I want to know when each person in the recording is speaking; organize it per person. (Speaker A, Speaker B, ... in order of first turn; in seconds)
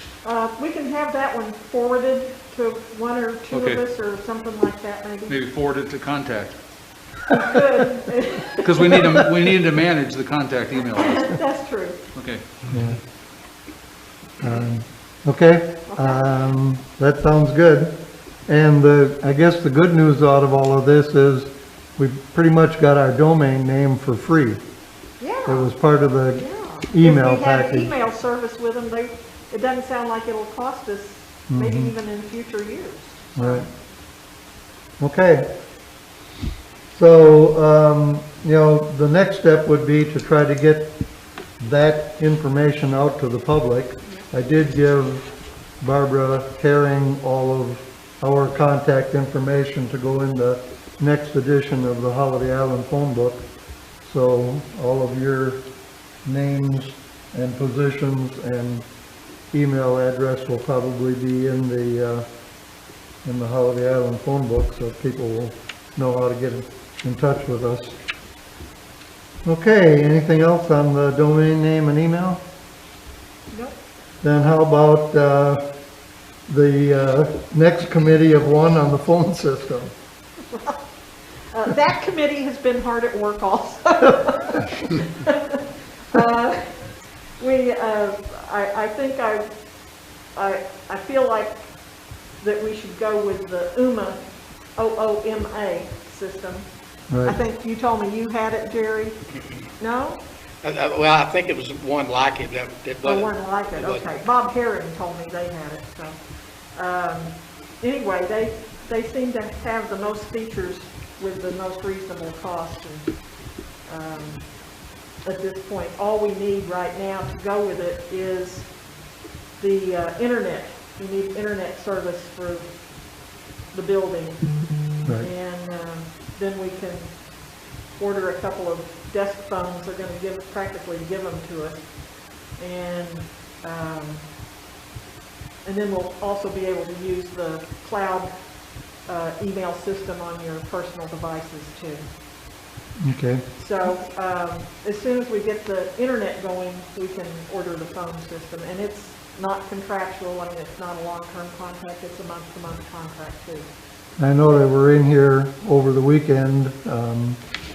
Speaker A: 0.2-5.4, 7.3-9.1, 10.9-12.0, 15.9-16.3, 25.2-25.7, 26.4-33.7, 73.5-73.8, 80.5-80.8, 81.5-86.8, 87.4-89.5, 90.3-91.7, 92.4-94.2, 94.8-96.7, 97.2-99.2, 99.8-100.2, 103.0-106.2, 106.7-113.1, 113.9-114.4, 115.2-118.7, 119.6-122.7, 123.7-124.4, 125.2-127.1, 128.0-131.8, 132.6-134.2, 135.6-138.3, 139.1-142.0, 143.6-153.7
Speaker B: 3.5-3.8, 5.3-6.5, 8.6-11.2, 12.1-12.4
Speaker C: 12.7-13.0, 14.4-17.9, 18.5-24.6, 25.4-27.9, 31.5-31.9, 33.4-33.7, 35.0-35.4, 36.9-40.9, 41.6-45.3, 45.8-53.4, 54.0-55.6, 56.2-58.8, 59.5-62.2, 63.2-67.9, 69.4-72.4, 74.2-75.6, 76.5-79.9, 97.1-97.4, 143.0-143.4, 154.2-157.4
Speaker D: 100.6-104.1